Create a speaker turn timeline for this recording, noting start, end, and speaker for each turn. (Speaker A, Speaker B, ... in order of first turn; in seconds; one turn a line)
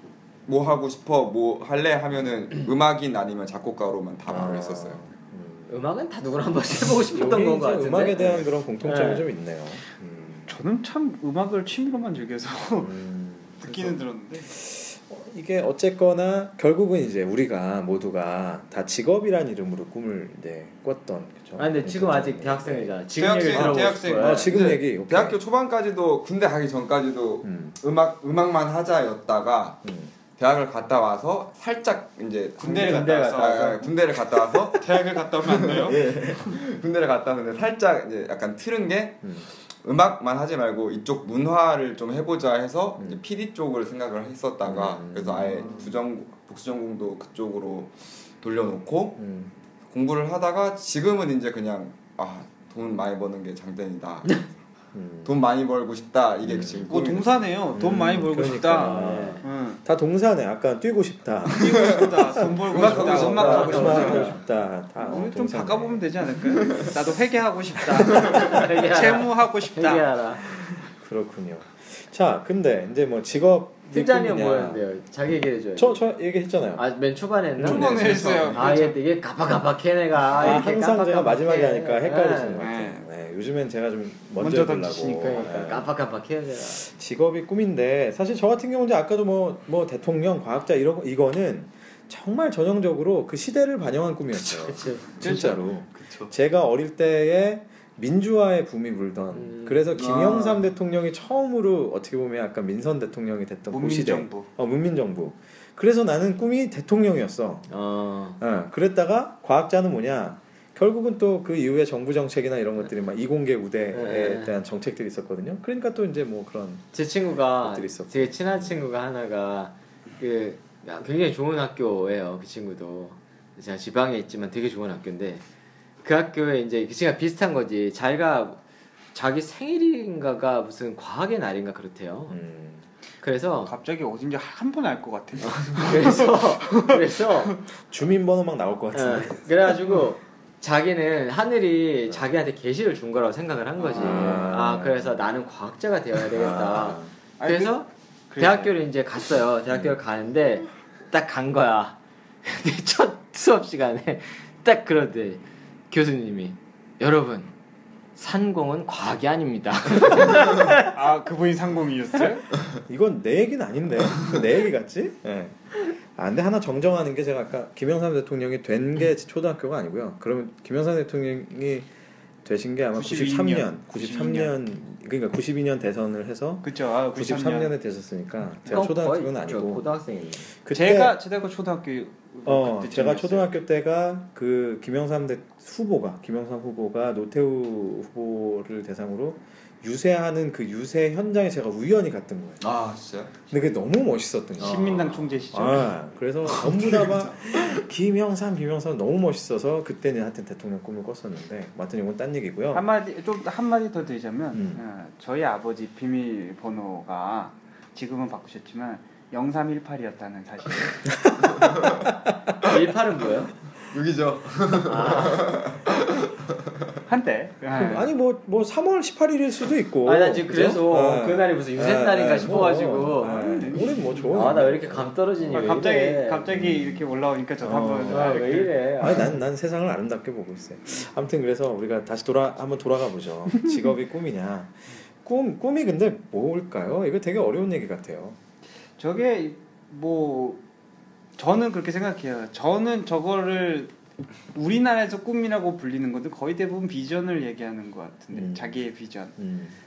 Speaker A: 0.5-5.0
Speaker B: 4.3-5.8
Speaker C: 5.7-9.2
Speaker B: 7.0-10.5
Speaker D: 10.5-12.9
Speaker B: 12.8-22.9
Speaker D: 13.6-14.5
Speaker C: 21.6-24.5
Speaker D: 23.2-24.5
Speaker A: 23.4-29.8
Speaker B: 24.1-25.4
Speaker B: 27.4-27.8
Speaker B: 29.8-30.1
Speaker A: 30.4-49.2
Speaker D: 32.6-33.8
Speaker C: 32.6-33.9
Speaker D: 34.7-36.0
Speaker B: 35.9-36.2
Speaker B: 39.2-39.5
Speaker B: 43.0-43.2
Speaker B: 44.6-45.9
Speaker B: 49.2-49.5
Speaker A: 49.9-54.6
Speaker B: 54.9-55.4
Speaker A: 55.2-57.4
Speaker B: 56.4-56.9
Speaker D: 56.9-59.8
Speaker B: 57.7-66.2
Speaker C: 58.8-59.4
Speaker D: 61.5-64.4
Speaker A: 61.6-64.3
Speaker C: 63.3-64.4
Speaker D: 65.0-70.1
Speaker B: 68.0-68.4
Speaker C: 68.2-70.5
Speaker B: 70.5-74.8
Speaker C: 73.9-76.0
Speaker B: 75.8-76.8
Speaker C: 76.8-82.6
Speaker D: 77.6-79.0
Speaker B: 77.6-78.5
Speaker A: 77.7-78.6
Speaker B: 80.3-85.9
Speaker D: 82.6-83.0
Speaker D: 84.4-85.5
Speaker C: 85.2-86.8
Speaker B: 86.8-107.7
Speaker C: 94.4-95.1
Speaker D: 95.2-96.3
Speaker C: 99.3-100.2
Speaker A: 100.0-100.6
Speaker D: 103.7-104.5
Speaker C: 107.7-108.4
Speaker B: 108.4-116.9
Speaker C: 113.9-114.5
Speaker C: 116.9-125.4
Speaker B: 117.6-118.8
Speaker C: 126.0-128.6
Speaker C: 129.1-132.4
Speaker B: 132.3-132.8
Speaker C: 133.2-133.7
Speaker D: 133.6-137.6
Speaker C: 135.4-137.6
Speaker B: 137.9-139.8
Speaker C: 138.9-157.5
Speaker D: 143.8-144.5
Speaker B: 143.9-145.2
Speaker B: 146.3-147.1
Speaker D: 147.4-148.7
Speaker B: 149.7-150.0
Speaker C: 158.2-160.9
Speaker D: 160.7-162.5
Speaker B: 162.9-171.9
Speaker B: 172.4-179.8
Speaker D: 172.9-174.5
Speaker D: 176.6-177.7
Speaker C: 178.7-180.5
Speaker B: 180.5-181.1
Speaker D: 180.7-183.5
Speaker B: 182.4-192.6
Speaker A: 192.6-193.4
Speaker B: 193.5-202.8
Speaker D: 194.6-196.0
Speaker A: 196.5-197.1
Speaker D: 202.7-211.1
Speaker B: 204.5-204.8
Speaker B: 211.2-212.5
Speaker A: 211.5-212.1
Speaker C: 212.6-213.5
Speaker A: 213.9-216.8
Speaker C: 214.8-215.6
Speaker D: 217.1-218.1
Speaker B: 217.7-225.7
Speaker C: 220.0-223.5
Speaker D: 223.2-224.6
Speaker C: 224.3-226.4
Speaker D: 225.5-228.8
Speaker B: 226.5-227.0
Speaker B: 227.6-228.5
Speaker C: 228.1-229.4
Speaker B: 229.0-238.4
Speaker D: 239.0-240.6
Speaker D: 241.4-243.9
Speaker D: 244.5-249.4
Speaker B: 248.3-249.8